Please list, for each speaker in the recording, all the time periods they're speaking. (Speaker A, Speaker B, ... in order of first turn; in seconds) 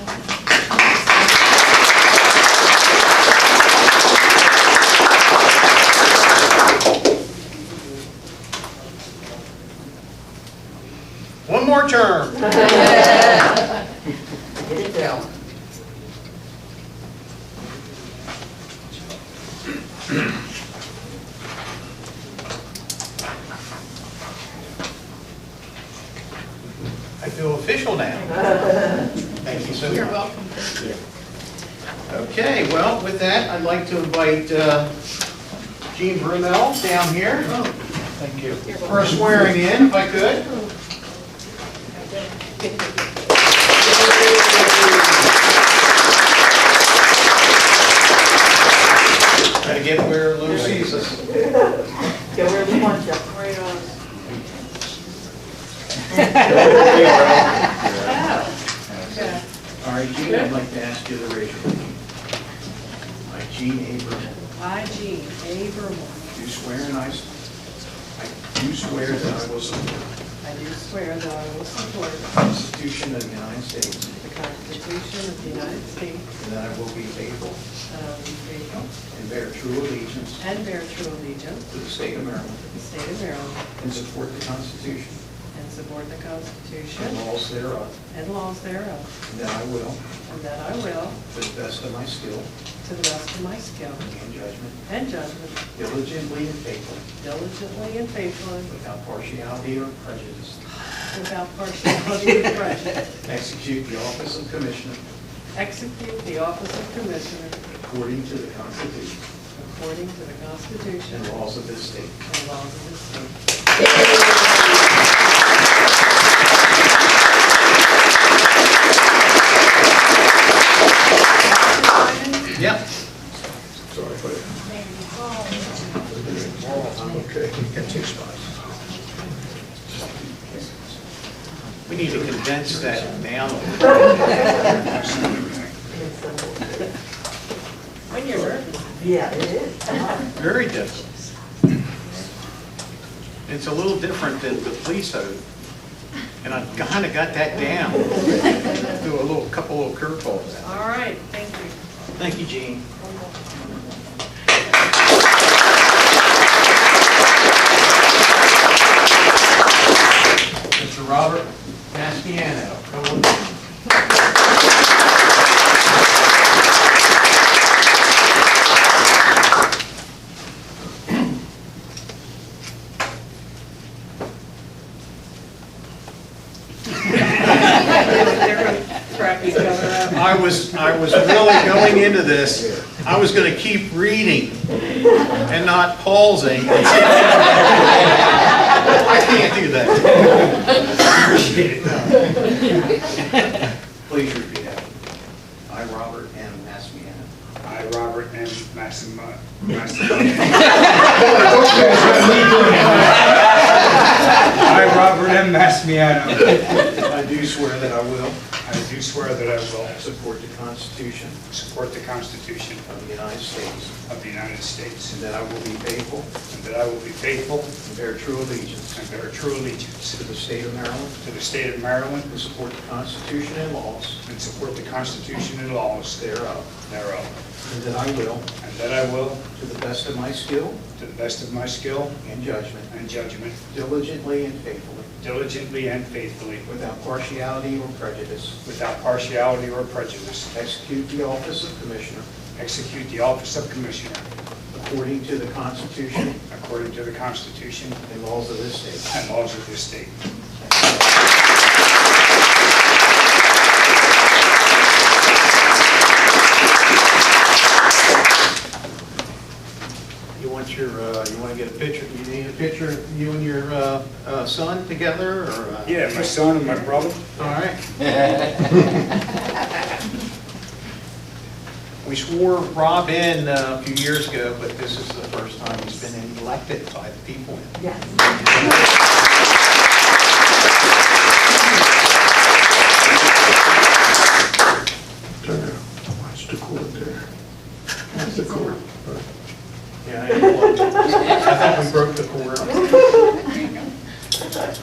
Speaker A: 0.8-1.1, 44.2-44.8, 53.3-54.0, 57.9-58.5, 59.0-59.4, 60.2-60.5, 64.5-66.3, 70.4-72.3, 74.2-76.3, 77.9-78.8, 80.4-81.7, 82.7-83.6, 85.5-87.2, 88.1-89.1, 90.2-91.2, 92.8-94.1, 94.8-95.6, 97.2-98.7, 101.1-103.1, 105.5-107.6, 109.5-111.4, 112.2-113.3, 121.4-122.6, 138.1-139.2, 150.6-151.8, 177.2-180.4
Speaker B: 11.5-12.7, 27.2-28.6, 29.4-30.3, 32.1-34.9, 35.9-37.6, 38.2-40.5, 49.6-51.3, 56.4-57.4, 59.8-62.0, 63.2-64.3, 66.3-67.3, 68.2-70.1, 72.3-74.1, 76.4-77.6, 78.7-80.4, 81.7-82.6, 83.8-85.2, 87.0-88.0, 89.2-90.0, 91.3-92.5, 94.0-94.8, 95.7-97.0, 98.7-100.6, 103.2-105.0, 107.8-109.2, 111.1-112.2, 122.5-122.8, 126.6-127.3, 131.8-134.8, 140.3-141.2, 143.5-145.4, 146.4-150.8, 152.1-152.9, 160.7-163.6, 180.1-184.6, 185.4-190.6, 191.8-192.9, 194.0-194.9, 195.7-197.3, 207.0-208.4, 209.9-211.4, 212.8-213.9, 215.1-216.4, 217.8-219.0, 220.2-221.2, 222.3-224.2, 226.3-226.7, 227.6-228.5, 229.5-230.8, 232.2-232.9, 233.7-235.1, 236.6-238.6, 240.5-242.3, 244.7-246.4, 248.1-249.1, 260.4-266.3, 267.4-267.8, 272.0-278.5, 290.0-293.2
Speaker C: 51.1-53.3, 135.9-136.9, 139.0-140.3, 277.8-278.7
Speaker D: 56.4-57.5, 134.6-135.7, 190.2-192.8, 197.6-207.0, 208.6-210.0, 211.5-212.8, 214.1-215.2, 216.5-217.7, 218.9-220.2, 221.2-222.3, 224.2-227.3, 228.6-229.4, 231.0-232.2, 232.9-233.6, 235.2-236.7, 238.6-240.5, 242.6-244.3, 246.5-248.0, 249.1-250.1, 265.9-267.2
Speaker E: 123.9-124.5, 126.1-128.2, 129.9-130.7, 285.4-287.2, 288.2-289.3